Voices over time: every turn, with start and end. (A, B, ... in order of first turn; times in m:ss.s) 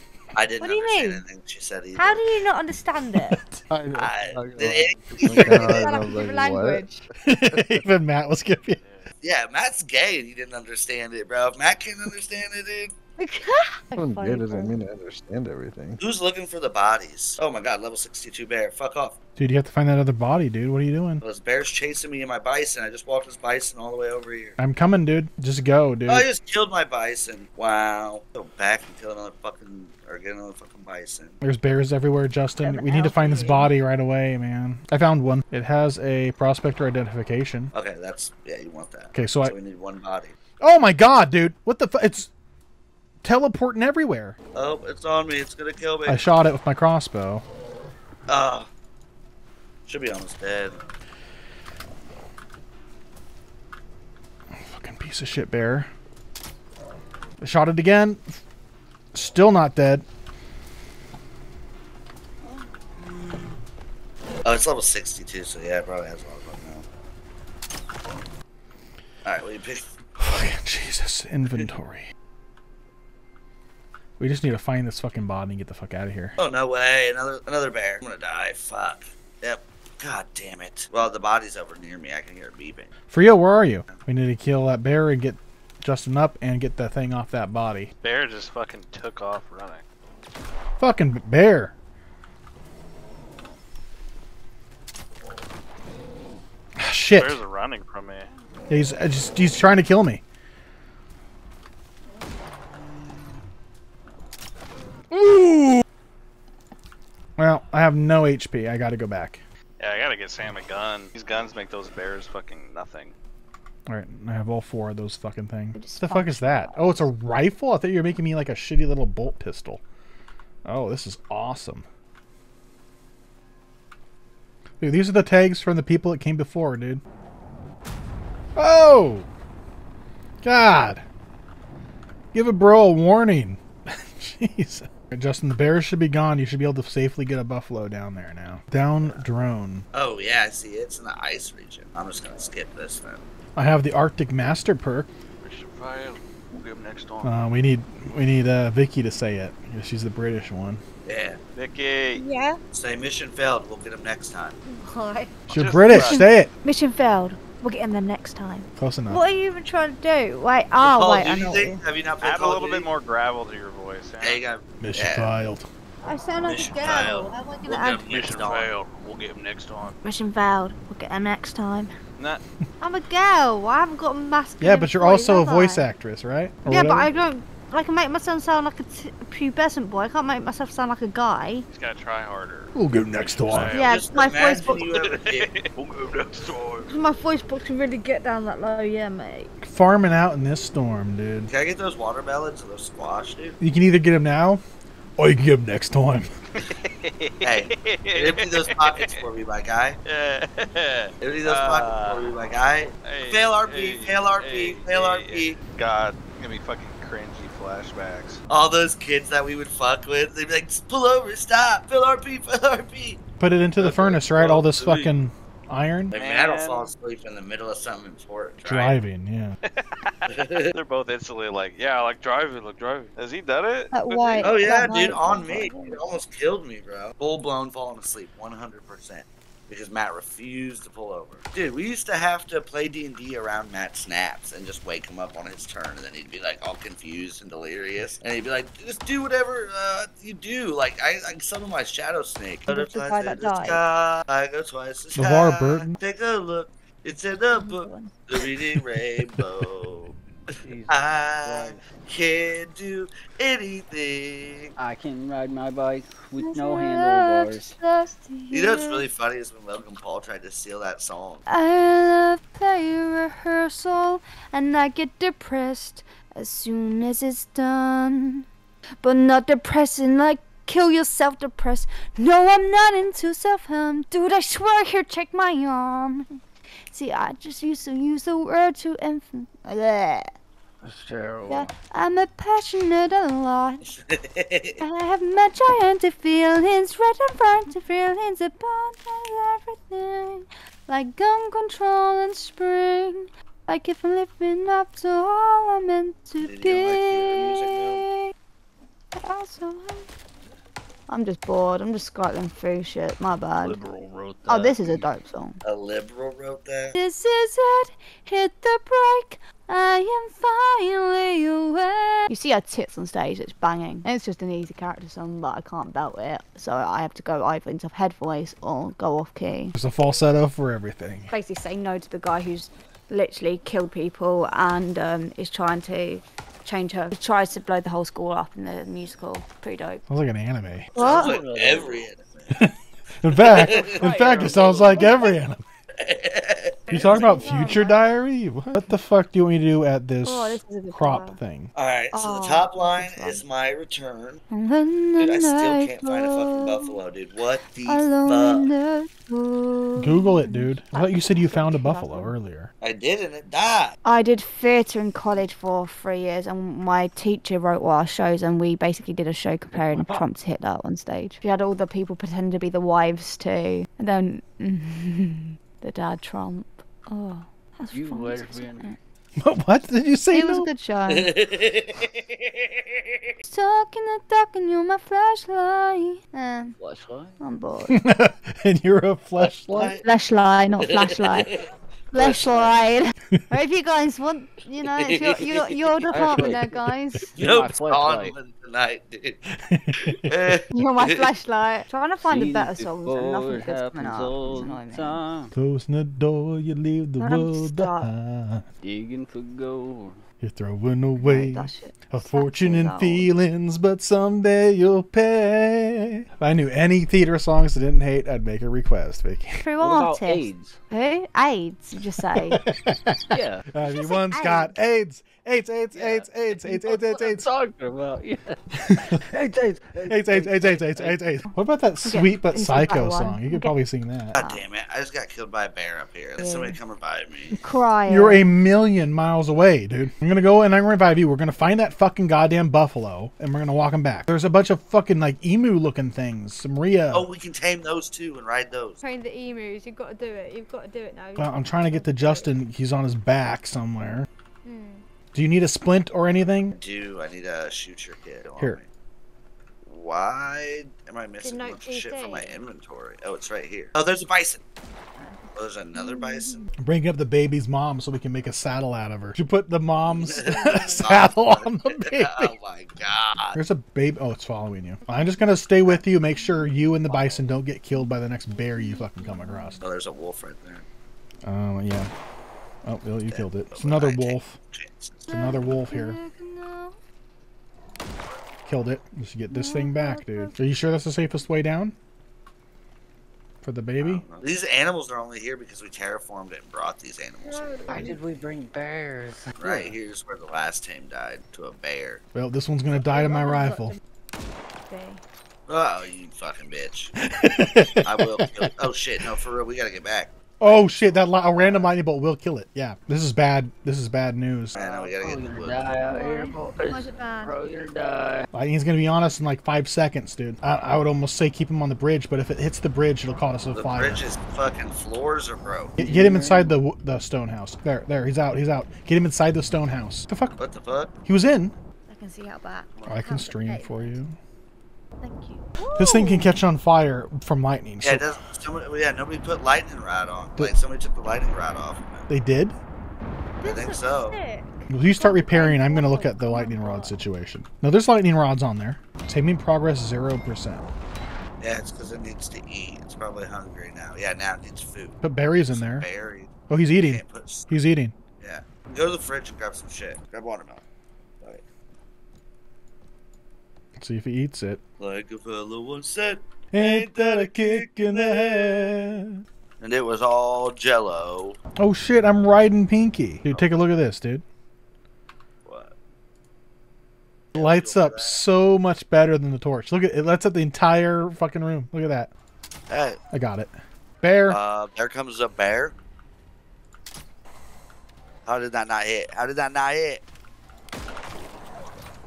0:00.3-0:02.3 A
0:00.6-0:01.2 B
0:02.0-0:03.4 B
0:03.1-0:03.6 C
0:03.7-0:06.8 D
0:04.0-0:05.8 A
0:05.3-0:07.0 B
0:07.2-0:08.8 C
0:08.8-0:09.1 E
0:09.2-0:12.9 A
0:13.2-0:14.7 B
0:14.0-0:16.0 D
0:16.0-0:19.2 A
0:19.4-0:21.2 C
0:21.2-0:24.6 A
0:24.6-0:26.3 C
0:26.1-0:31.4 A
0:31.4-0:37.7 C
0:32.6-0:33.7 B
0:37.7-0:40.3 A
0:39.1-0:39.5 C
0:40.6-0:42.3 C
0:43.2-0:44.4 C
0:44.5-0:46.2 A
0:46.1-0:47.4 C
0:48.3-0:48.7 A
0:49.9-0:50.8 A
0:54.5-0:55.9 C
0:57.4-0:58.4 C
0:59.1-1:00.0 C
1:03.0-1:03.4 A
1:04.4-1:06.8 A
1:09.2-1:09.9 A
1:10.2-1:12.1 C
1:14.2-1:16.4 C
1:16.4-1:22.9 A
1:23.1-1:27.9 C
1:28.0-1:29.8 E
1:30.8-1:31.7 C
1:36.8-1:37.4 C
1:37.1-1:38.3 E
1:38.7-1:40.2 C
1:45.1-1:45.8 C
1:47.4-1:49.4 C
1:49.8-1:53.1 E
1:53.9-1:59.8 C
1:55.8-1:57.1 B
2:00.6-2:01.8 C
2:04.8-2:07.0 C
2:08.6-2:09.3 C
2:10.4-2:11.0 C
2:12.3-2:19.8 C
2:19.9-2:23.2 A
2:23.6-2:25.1 C
2:25.4-2:27.3 E
2:27.2-2:30.8 C
2:31.0-2:31.4 A
2:31.5-2:32.2 E
2:32.1-2:32.6 B
2:32.7-2:34.6 A
2:34.7-2:35.4 B
2:35.5-2:36.2 E
2:35.5-2:36.5 C
2:35.9-2:41.8 B
2:38.8-2:39.2 C
2:40.8-2:42.8 A
2:42.2-2:44.4 E
2:44.2-2:45.3 A
2:44.8-2:45.6 C
2:46.0-2:48.0 B
2:46.4-2:48.7 A
2:48.1-2:50.0 E
2:50.0-2:51.9 B
2:52.8-2:55.9 B
2:54.6-2:57.1 C
2:56.7-3:01.6 B
3:01.7-3:03.9 E
3:02.7-3:03.7 C
3:03.7-3:04.8 B
3:03.7-3:05.5 A
3:04.7-3:07.0 E
3:06.9-3:09.5 B
3:09.6-3:11.5 C
3:11.5-3:13.6 A
3:13.6-3:14.6 C
3:15.2-3:16.3 C
3:16.6-3:19.2 E
3:17.4-3:20.0 A
3:20.0-3:22.3 E
3:21.2-3:25.6 A
3:23.0-3:28.4 E
3:28.5-3:33.2 A
3:33.4-3:36.1 C
3:33.8-3:35.1 A
3:36.1-3:36.9 E
3:36.1-3:39.0 A
3:38.6-3:39.6 C
3:39.7-3:44.5 E
3:40.3-3:40.7 A
3:43.9-3:46.0 B
3:44.4-4:10.2 A
4:02.7-4:03.8 B
4:05.1-4:06.0 C
4:07.5-4:08.1 B
4:10.6-4:11.8 F
4:10.9-4:14.7 A
4:14.8-4:17.7 F
4:16.3-4:19.0 B
4:18.5-4:21.4 A
4:21.5-4:28.4 B
4:29.0-4:36.4 B
4:36.9-4:40.3 B
4:40.8-4:41.7 F
4:41.5-4:43.8 B
4:43.9-4:44.8 A
4:44.8-4:58.3 B
4:56.4-4:58.0 A
4:59.1-5:00.1 B
5:01.1-5:03.8 B
5:03.6-5:05.1 F
5:04.5-5:05.6 B
5:05.6-5:06.9 A
5:06.9-5:19.7 B
5:19.7-5:21.3 C
5:21.3-5:30.0 B
5:30.1-5:30.9 C
5:30.9-5:32.6 A
5:31.0-5:31.4 B
5:31.1-5:32.0 F
5:32.5-5:35.6 C
5:33.4-5:34.1 A
5:33.8-5:34.9 E
5:34.8-5:35.2 B
5:36.0-5:37.2 A
5:36.9-5:38.0 B
5:36.9-5:41.7 C
5:40.2-5:41.4 B
5:41.7-5:44.4 A
5:42.1-5:43.4 B
5:44.5-5:47.0 B
5:45.2-5:48.7 A
5:47.8-5:52.3 B
5:50.0-5:52.7 C
5:52.8-5:54.0 A
5:54.0-6:09.0 B
5:59.7-6:00.2 F
6:07.9-6:08.9 F
6:09.4-6:10.7 C
6:10.3-6:11.3 B
6:11.1-6:13.1 A
6:13.4-6:16.8 B
6:16.8-6:17.3 F
6:17.4-6:18.0 B
6:17.9-6:19.9 C
6:19.7-6:21.5 B
6:19.7-6:20.0 A
6:21.3-6:21.5 A
6:22.1-6:27.4 B
6:22.1-6:22.8 A
6:25.0-6:26.4 A
6:26.1-6:26.7 F
6:27.3-6:28.3 F
6:27.4-6:29.4 A
6:29.7-6:30.5 C
6:30.2-6:31.2 A
6:30.7-6:35.2 B
6:32.2-6:35.5 F
6:35.5-6:38.6 C
6:37.2-6:38.1 B
6:38.8-6:40.2 F
6:40.4-6:49.6 C
6:41.2-6:43.3 B
6:49.6-6:52.6 B
6:49.8-6:50.8 F
6:52.4-6:57.5 C
6:53.3-6:53.6 F
6:53.8-6:54.7 B
6:55.9-6:58.6 F
6:58.8-6:59.3 C
6:59.3-7:01.1 F
7:00.1-7:04.4 C
7:02.0-7:03.7 B
7:04.3-7:07.6 A
7:04.4-7:04.6 B
7:06.4-7:06.8 B
7:07.5-7:08.4 B
7:08.1-7:17.3 C
7:17.1-7:19.0 A
7:19.0-7:22.5 B
7:21.4-7:24.3 C
7:24.6-7:25.0 B
7:25.3-7:26.8 C
7:26.7-7:28.9 A
7:29.8-7:34.6 A
7:31.4-7:32.6 B
7:35.2-7:36.6 B
7:35.5-7:36.7 A
7:36.8-7:42.5 C
7:40.1-7:43.6 A
7:40.4-7:40.9 B
7:43.5-7:49.8 C
7:48.8-7:49.8 B
7:49.8-7:50.8 A
7:51.4-7:52.1 C
7:52.8-7:54.6 C
7:53.3-7:55.3 A
7:55.3-7:57.0 B
7:55.3-7:56.2 C
7:58.6-8:01.9 C
7:59.5-8:00.5 B
8:03.6-8:04.2 C
8:04.0-8:08.1 A
8:07.9-8:08.2 B
8:07.9-8:09.9 F
8:09.6-8:12.2 A
8:12.3-8:14.0 C
8:13.2-8:14.0 B
8:14.9-8:15.2 B
8:15.7-8:17.1 A
8:17.2-8:18.7 C
8:18.0-8:21.8 A
8:20.6-8:24.8 C
8:24.7-8:25.9 A
8:24.9-8:28.4 F
8:26.1-8:27.8 B
8:28.5-8:34.2 C
8:33.7-8:35.9 A
8:36.0-8:40.6 C
8:36.0-8:36.7 F
8:40.6-8:41.1 A
8:41.2-8:41.7 C
8:42.1-8:44.1 B
8:43.0-8:44.4 C
8:45.2-8:46.5 B
8:45.9-8:48.2 C
8:48.0-8:52.3 A
8:52.3-8:52.8 C
8:53.6-8:54.4 A
8:53.6-8:57.1 B
8:54.9-9:00.9 C
9:01.6-9:07.7 A
9:05.2-9:06.1 C
9:06.7-9:08.2 C
9:08.4-9:10.8 A
9:14.0-9:14.8 C
9:15.0-9:18.9 A
9:16.7-9:19.4 C
9:19.8-9:21.6 A
9:21.8-9:24.4 C
9:25.6-9:25.9 A
9:27.5-9:28.4 A
9:27.6-9:32.3 C
9:32.9-9:33.2 A
9:33.3-9:34.6 C
9:34.5-9:35.9 A
9:38.4-9:40.2 A